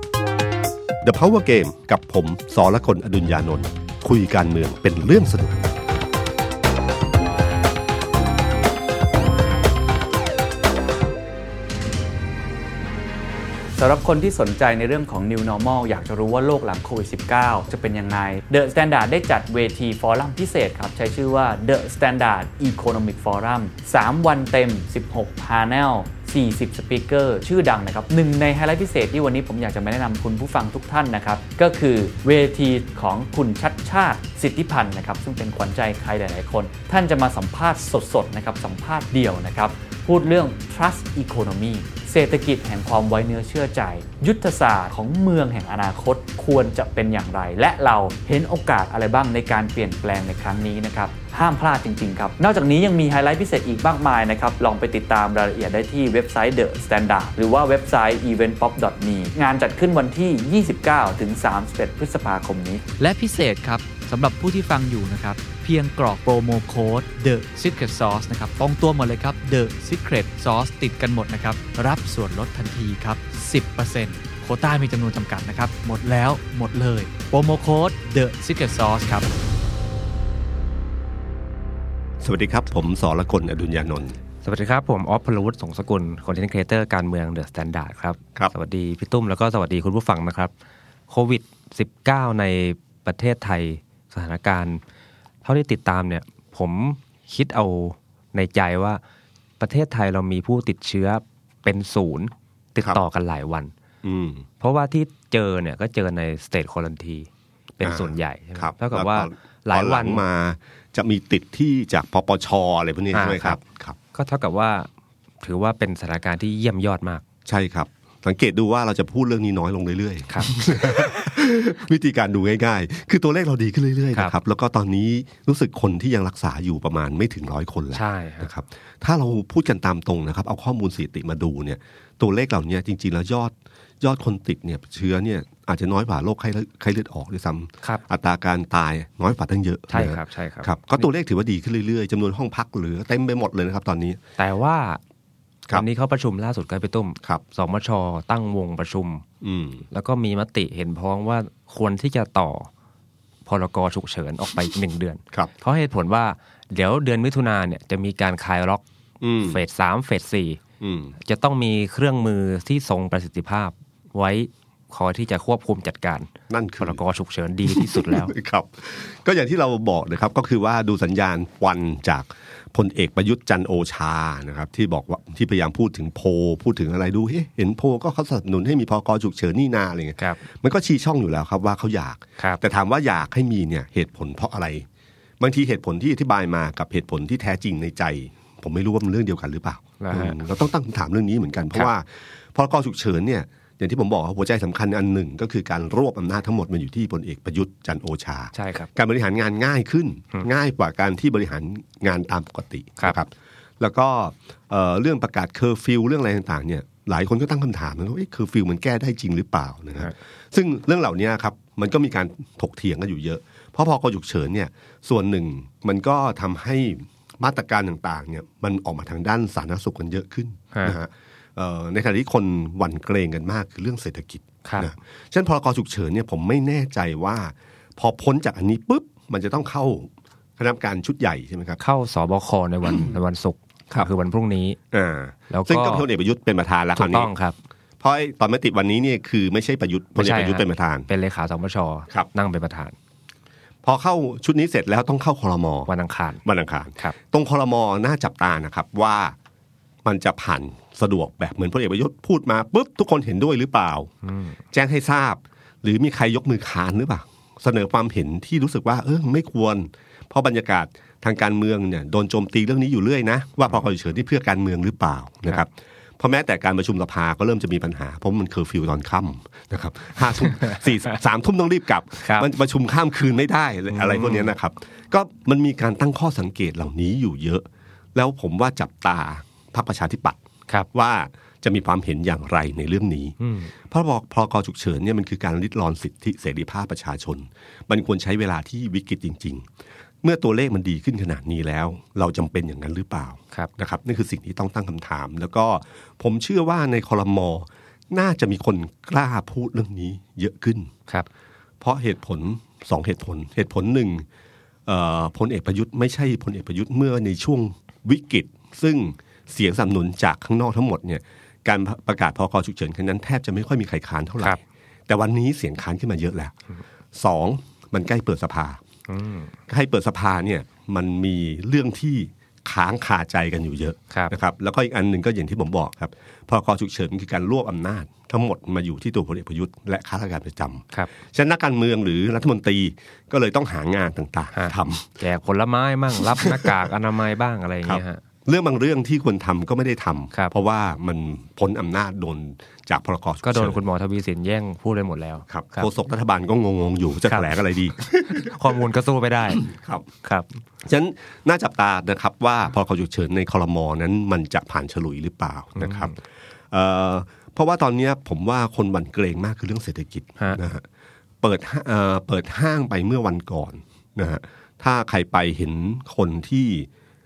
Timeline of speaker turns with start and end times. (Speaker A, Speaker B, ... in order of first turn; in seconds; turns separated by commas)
Speaker A: 1.0-5.7, Speaker B: 13.7-79.2, Speaker C: 63.0-68.8, Speaker C: 69.4-70.2, Speaker C: 71.8-79.2, Speaker A: 82.2-84.2, Speaker D: 84.4-90.5, Speaker D: 91.1-94.8, Speaker D: 95.4-99.0, Speaker D: 99.6-103.7, Speaker A: 104.0-104.5, Speaker D: 104.6-107.3, Speaker D: 107.8-110.2, Speaker A: 107.8-114.0, Speaker D: 113.1-113.6, Speaker D: 114.1-114.9, Speaker D: 115.4-117.2, Speaker A: 117.5-144.2, Speaker D: 127.9-128.5, Speaker D: 139.9-141.1, Speaker D: 144.4-145.0, Speaker D: 145.7-149.2, Speaker A: 149.4-149.8, Speaker D: 149.9-152.7, Speaker D: 153.4-158.8, Speaker A: 159.2-159.6, Speaker D: 159.4-160.6, Speaker A: 160.8-161.1, Speaker D: 161.2-166.3, Speaker A: 166.5-167.0, Speaker D: 166.8-168.3, Speaker A: 167.7-184.8, Speaker A: 185.4-231.8, Speaker D: 190.0-190.4, Speaker D: 198.5-198.9, Speaker D: 224.6-224.9, Speaker D: 231.8-234.8, Speaker A: 234.9-237.3, Speaker D: 235.5-236.1, Speaker D: 236.9-237.6, Speaker A: 238.0-241.1, Speaker D: 240.2-242.9, Speaker A: 243.8-245.9, Speaker D: 245.9-246.4, Speaker A: 246.4-249.3, Speaker A: 250.0-254.1, Speaker D: 254.2-254.6, Speaker A: 254.7-280.4, Speaker D: 272.2-272.5, Speaker D: 273.9-274.5, Speaker A: 280.9-289.7, Speaker D: 283.4-283.7, Speaker A: 290.2-300.9, Speaker A: 301.8-304.2, Speaker A: 304.9-316.5, Speaker A: 317.1-318.8, Speaker D: 319.1-319.5, Speaker A: 319.7-335.1, Speaker D: 334.5-338.2, Speaker A: 336.4-336.7, Speaker A: 337.8-343.8, Speaker D: 343.4-345.9, Speaker A: 345.5-348.6, Speaker D: 347.3-347.5, Speaker D: 348.2-349.7, Speaker A: 349.5-350.1, Speaker D: 350.2-350.5, Speaker A: 350.8-356.1, Speaker D: 355.8-356.1, Speaker A: 356.7-360.8, Speaker A: 361.4-366.9